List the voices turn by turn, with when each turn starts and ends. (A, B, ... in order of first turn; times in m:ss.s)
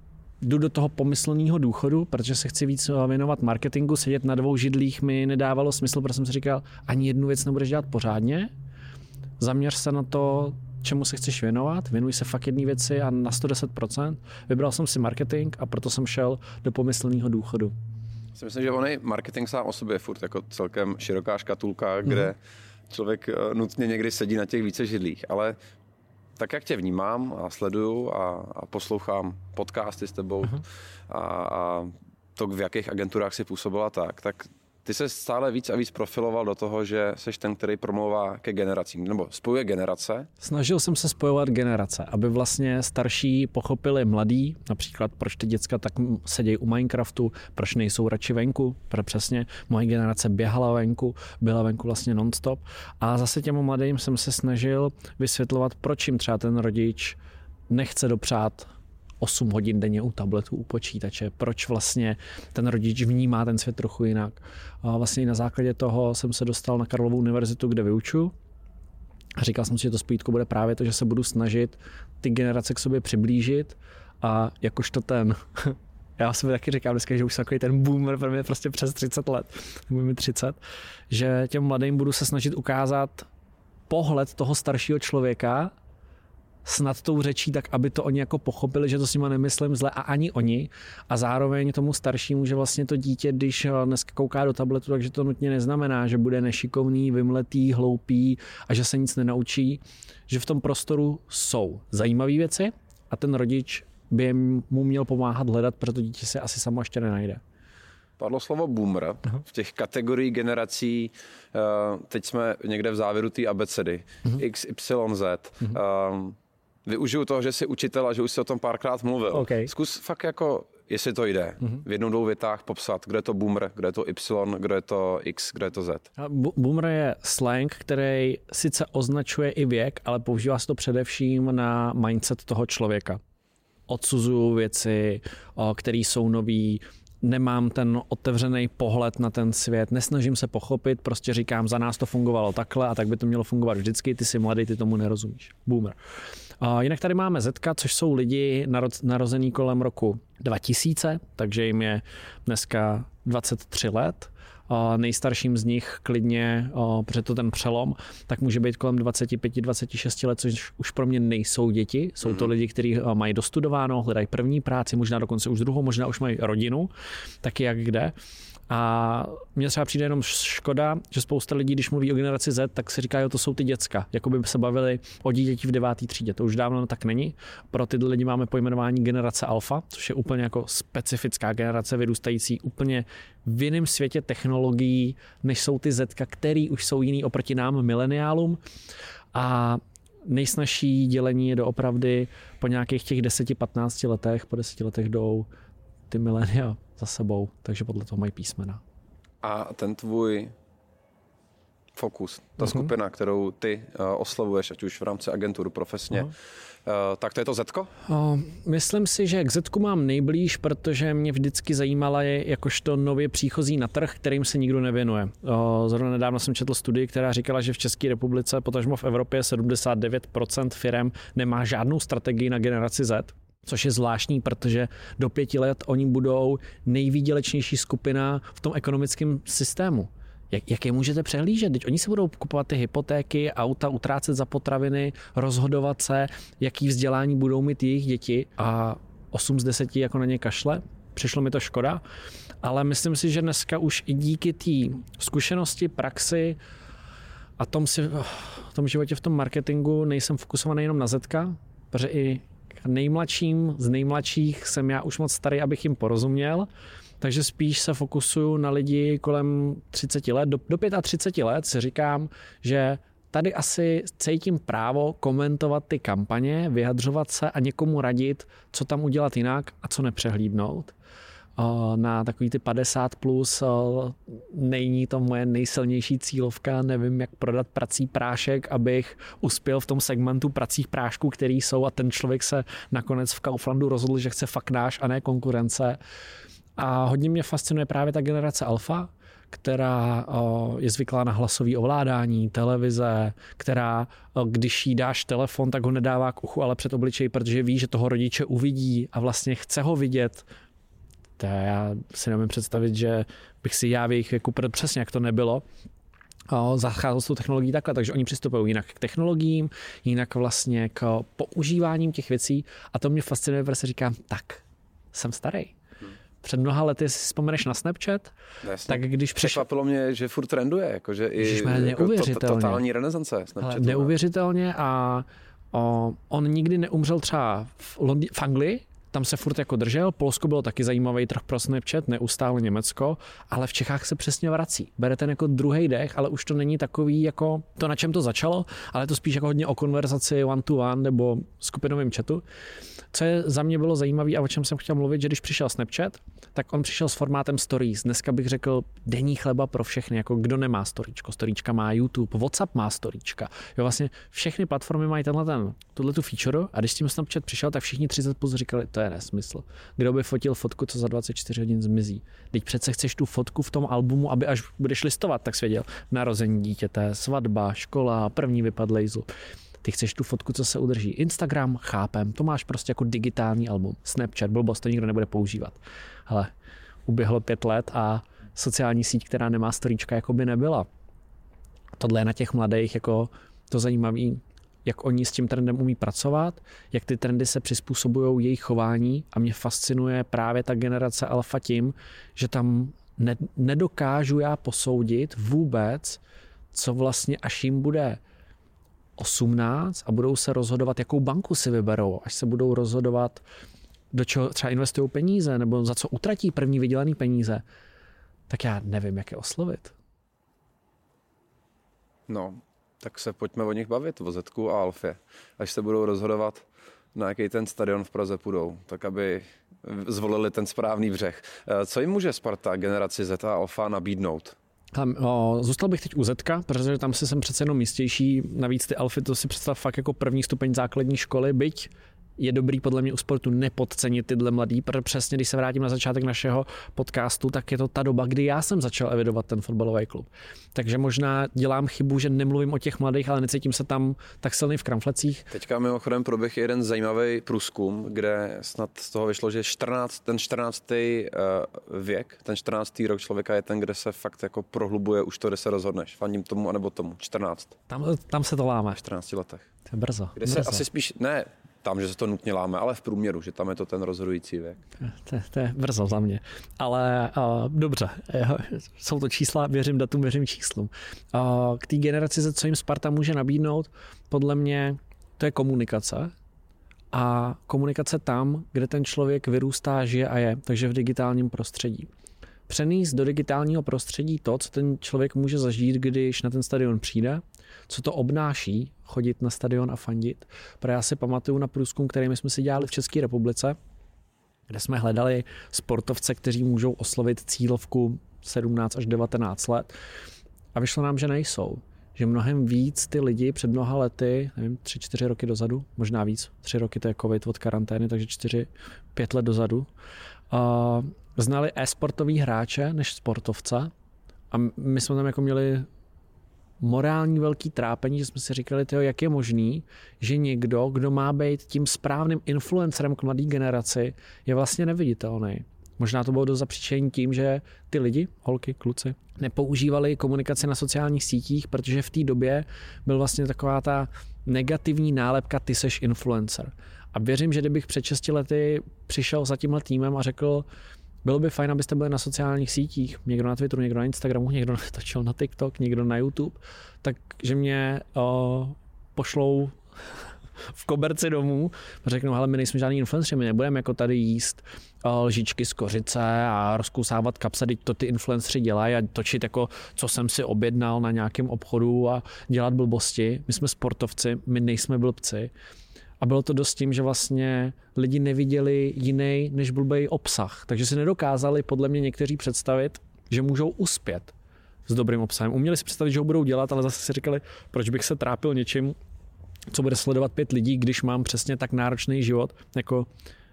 0:00.4-0:08.5 A
0:09.4-0:17.7 A
0:18.3-0:22.4 B
0:22.9-0:25.6 B
0:26.4-0:40.3 B
0:40.4-0:57.2 A
0:57.7-0:58.7 A
0:59.2-1:08.3 A
1:09.4-1:20.6 A
1:21.1-1:23.3 A
1:23.9-1:25.7 A
1:26.6-1:47.4 A
1:48.2-2:06.1 B
1:59.3-1:59.7 A
2:06.2-2:13.2 A
2:13.9-2:26.0 A
2:26.6-2:46.9 A
2:42.2-2:42.5 B
2:47.4-2:48.1 A
2:48.7-3:08.6 A
3:09.3-3:15.5 A
3:16.1-3:18.8 A
3:19.4-3:20.5 B
3:21.9-3:26.3 B
3:22.6-3:22.9 A
3:26.8-3:27.9 B
3:28.1-4:02.0 A
4:02.6-4:06.6 A
4:07.6-4:16.7 A
4:17.2-4:30.9 A
4:31.6-4:46.0 A
4:46.8-5:00.4 A
5:01.4-5:05.6 A
5:06.5-5:15.8 A
5:16.4-5:18.3 A
5:18.6-5:24.1 B
5:18.8-5:19.6 A
5:21.4-5:22.8 A
5:23.6-5:42.4 A
5:43.1-6:09.3 A
6:09.8-6:16.5 A
6:17.0-6:20.9 A
6:22.0-6:36.2 A
6:36.7-6:38.2 A
6:39.2-6:43.4 A
6:44.1-6:47.6 A
6:48.5-6:49.9 A
6:52.3-7:04.6 B
7:04.9-7:25.5 A
7:25.5-7:37.7 B
7:37.9-7:39.0 A
7:39.0-7:39.7 B
7:39.9-7:40.8 A
7:40.4-7:44.8 B
7:45.0-7:56.3 A
7:57.1-8:02.1 A
8:02.7-8:13.8 A
8:14.7-8:19.9 A
8:20.7-8:29.9 A
8:30.5-8:33.9 A
8:34.5-8:35.9 A
8:36.8-9:00.6 A
9:01.2-9:09.8 A
9:10.7-9:25.5 A
9:26.2-9:34.3 A
9:34.9-9:38.9 A
9:39.7-9:43.1 A